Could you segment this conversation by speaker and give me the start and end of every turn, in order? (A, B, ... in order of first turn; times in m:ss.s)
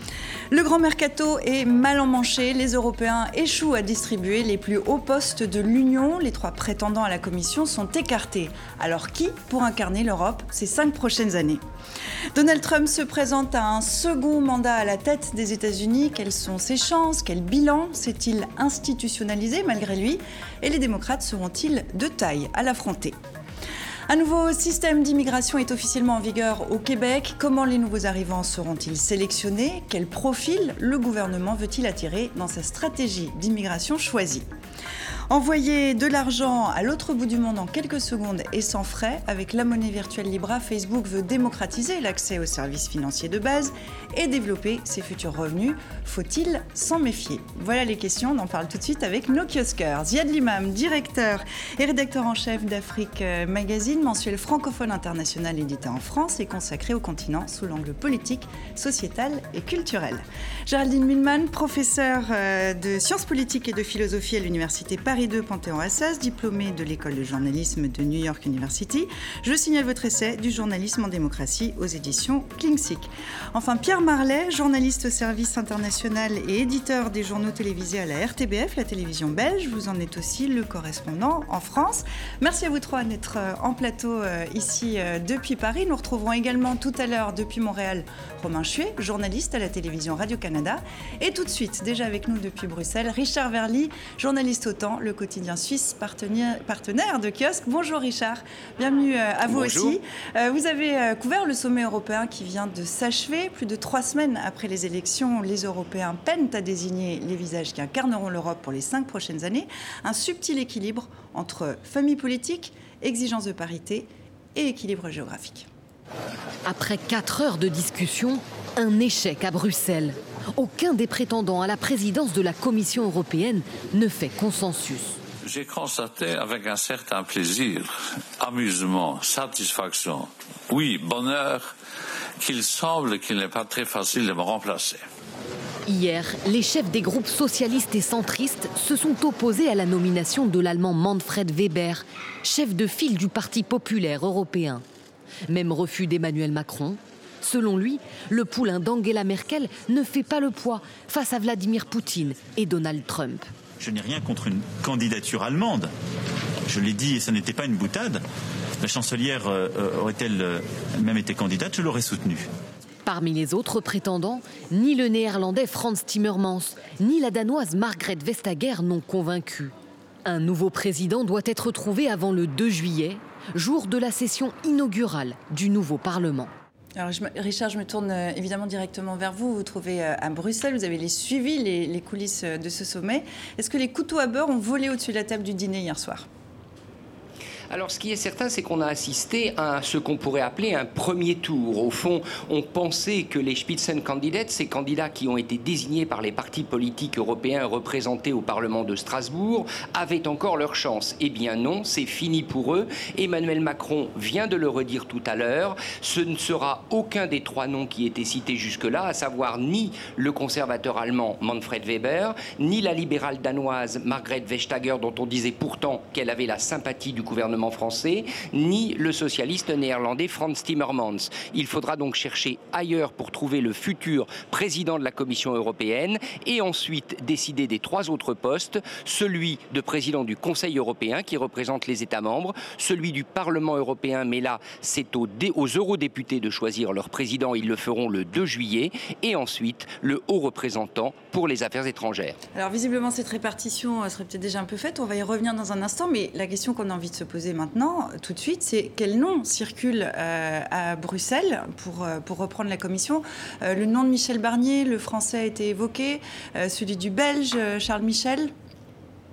0:00.5-0:11.6 A
0:12.3-0:23.2 A
0:24.1-0:34.5 A
0:35.3-1:55.7 A
1:39.5-1:40.0 B
1:56.7-2:05.2 C
2:05.4-2:11.8 D
2:12.4-2:15.1 D
2:15.9-2:24.8 C
2:25.5-2:33.5 C
2:33.8-2:35.9 E
2:36.7-2:38.2 E
2:38.8-2:42.5 E
2:43.0-2:49.7 C
2:50.3-2:56.5 C
2:57.0-3:06.3 A
3:07.7-4:02.4 B
4:02.6-4:18.5 A